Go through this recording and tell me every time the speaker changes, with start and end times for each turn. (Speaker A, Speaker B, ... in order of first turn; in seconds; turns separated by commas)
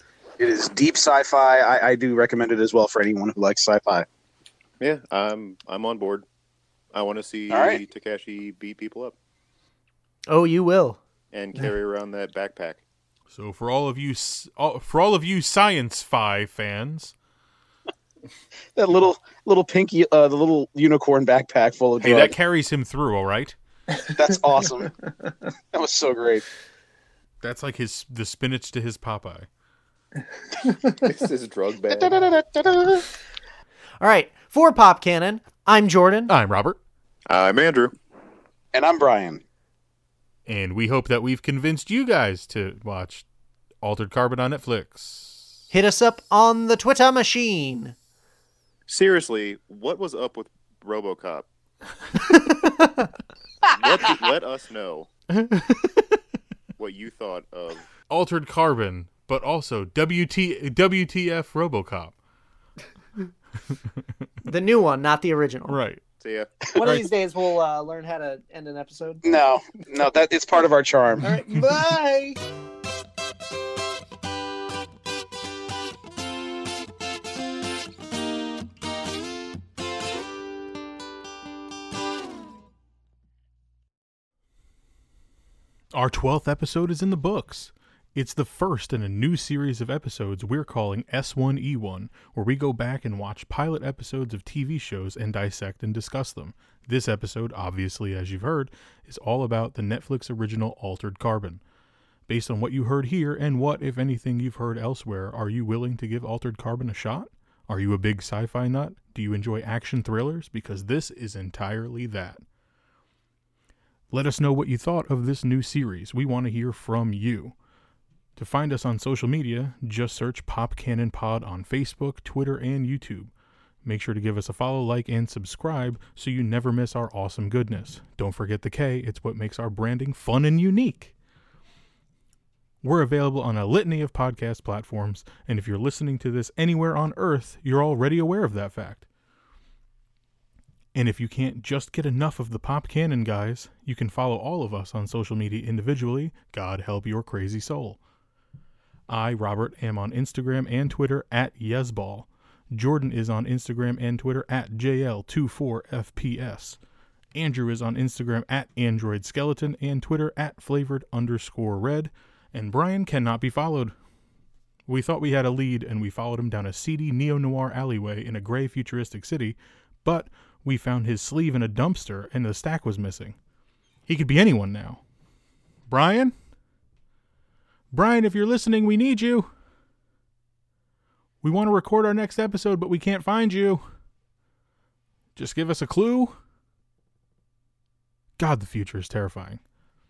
Speaker A: 0.4-4.0, Speaker B: 4.8-6.2, Speaker B: 6.9-9.2, Speaker A: 7.5-7.8, Speaker C: 10.3-11.0, Speaker B: 11.3-12.8, Speaker D: 13.3-17.1, Speaker A: 18.8-22.4, Speaker D: 22.0-23.6, Speaker A: 24.1-24.9, Speaker A: 25.7-26.4, Speaker D: 27.4-29.5, Speaker B: 30.9-32.4, Speaker A: 31.9-33.0, Speaker C: 34.0-36.3, Speaker D: 36.3-36.8, Speaker B: 37.3-37.9, Speaker A: 38.7-39.4, Speaker D: 40.5-43.2, Speaker D: 43.8-45.5, Speaker C: 45.7-47.9, Speaker B: 48.9-51.5, Speaker C: 52.3-53.1, Speaker B: 53.6-55.1, Speaker D: 55.4-56.0, Speaker B: 56.8-57.9, Speaker D: 58.1-62.1, Speaker C: 64.4-65.8, Speaker D: 65.7-66.0, Speaker B: 66.2-66.5, Speaker D: 66.8-67.1, Speaker E: 66.8-69.2, Speaker A: 69.2-71.4, Speaker E: 71.2-72.1, Speaker D: 85.9-101.6, Speaker D: 102.3-112.4, Speaker D: 114.1-117.5, Speaker D: 118.3-123.3, Speaker D: 123.8-131.1, Speaker D: 132.8-139.1, Speaker D: 140.9-148.0, Speaker D: 149.1-156.8, Speaker D: 157.3-163.9, Speaker D: 164.9-173.3, Speaker D: 174.1-175.0, Speaker D: 175.9-176.3, Speaker D: 177.9-179.5, Speaker D: 181.4-183.8, Speaker D: 185.3-186.3, Speaker D: 188.4-189.6